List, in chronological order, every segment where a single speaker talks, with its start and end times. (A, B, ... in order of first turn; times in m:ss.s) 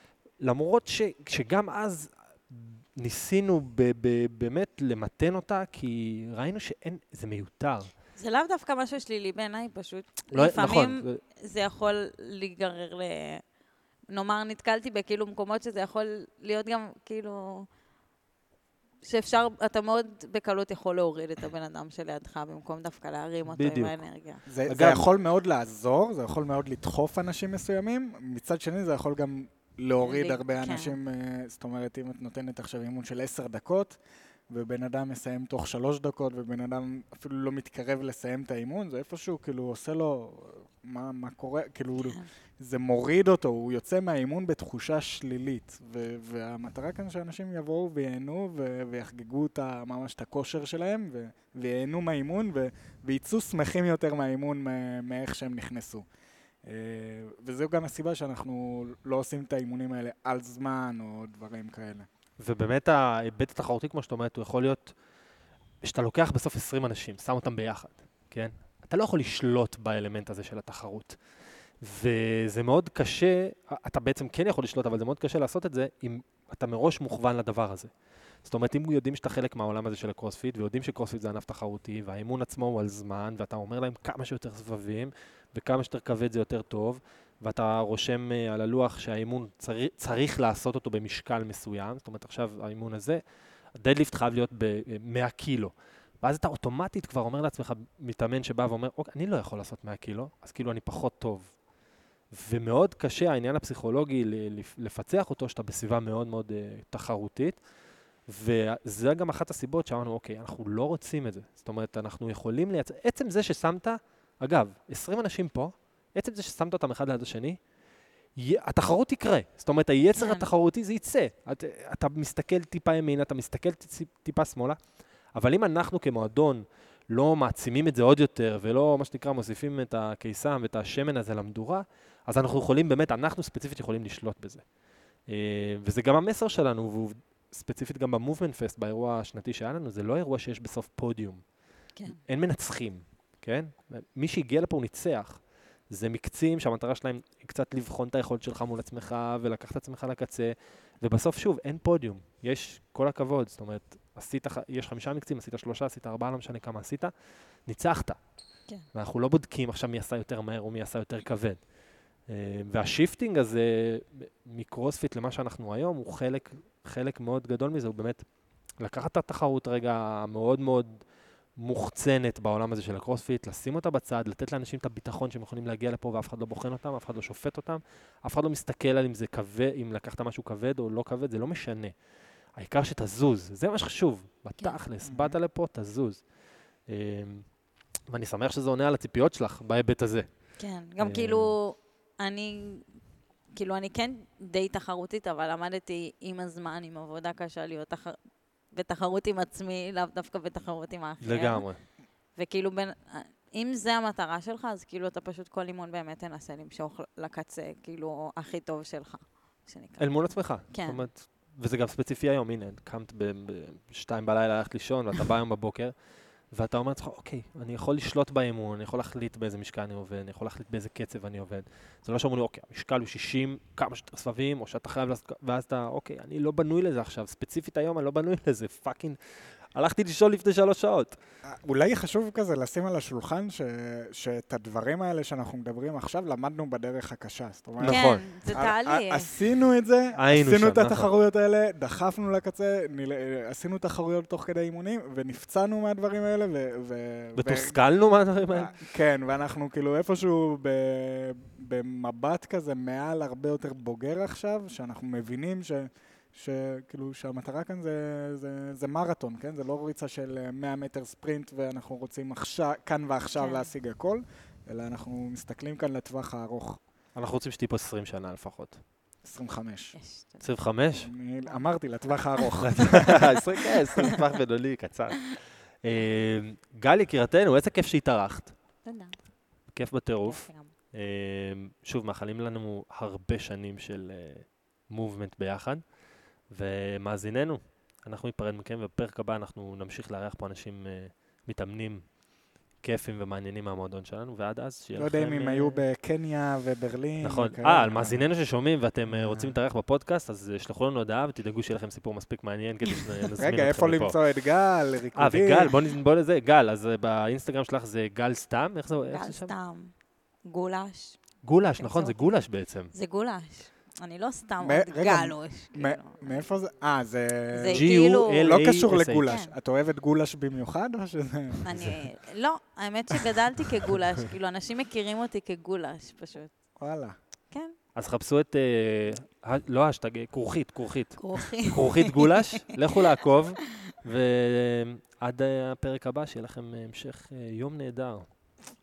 0:00.4-0:07.9 A
0:08.2-0:13.4 B
0:10.3-0:11.2 A
0:14.1-0:17.6 B
0:19.0-0:24.4 B
0:23.5-0:24.0 A
0:24.5-0:34.0 C
0:24.7-0:25.1 A
0:30.0-0:31.0 B
0:34.5-0:56.0 C
0:42.0-0:42.3 B
0:56.6-1:02.1 C
1:02.4-1:05.0 A
1:05.8-1:11.2 A
1:11.8-1:17.9 A
1:18.5-1:33.2 A
1:33.8-1:41.5 A
1:42.3-1:47.6 A
1:48.3-1:57.6 A
1:58.4-2:04.8 A
2:00.1-2:00.5 B
2:05.3-2:14.6 A
2:15.3-2:21.4 A
2:22.3-2:25.4 A
2:25.9-2:37.1 A
2:37.6-2:38.2 A
2:38.9-2:41.6 A
2:42.3-2:48.2 A
2:48.8-2:50.9 A
2:51.6-3:01.9 A
3:02.6-3:06.2 A
3:05.0-3:05.4 C
3:06.9-3:07.4 A
3:08.1-3:10.3 A
3:10.6-3:12.9 B
3:11.0-3:11.6 A
3:13.5-3:18.2 B
3:18.7-3:21.6 B
3:21.2-3:21.8 A
3:22.4-3:31.0 B
3:30.0-3:35.9 A
3:36.5-3:49.2 A
3:49.8-3:51.2 A
3:51.4-4:07.8 C
3:57.8-3:58.2 A
3:57.9-3:59.3 B
4:00.1-4:01.2 A
4:07.4-4:08.7 A
4:08.5-4:26.8 C
4:23.4-4:23.7 B
4:27.1-4:28.8 A
4:29.2-4:29.9 C
4:29.9-4:30.5 B
4:30.4-4:31.1 A
4:31.0-4:33.3 C
4:32.6-4:38.5 A
4:38.8-4:39.2 B
4:39.7-4:45.8 A
4:40.2-4:40.7 B
4:46.5-4:52.1 A
4:52.8-4:55.8 A
4:55.0-4:58.2 C
4:57.2-5:04.2 A
4:59.1-4:59.5 C
5:03.4-5:05.7 C
5:05.1-5:09.5 A
5:09.1-5:09.9 B
5:10.4-5:11.2 B
5:11.4-5:12.9 A
5:11.8-5:12.2 B
5:12.9-5:16.5 B
5:14.6-5:17.9 C
5:17.5-5:18.6 B
5:17.7-5:19.3 A
5:18.4-5:22.0 C
5:19.2-5:19.5 B
5:21.6-5:26.5 B
5:26.8-5:27.2 C
5:27.9-5:38.2 A
5:31.2-5:32.7 B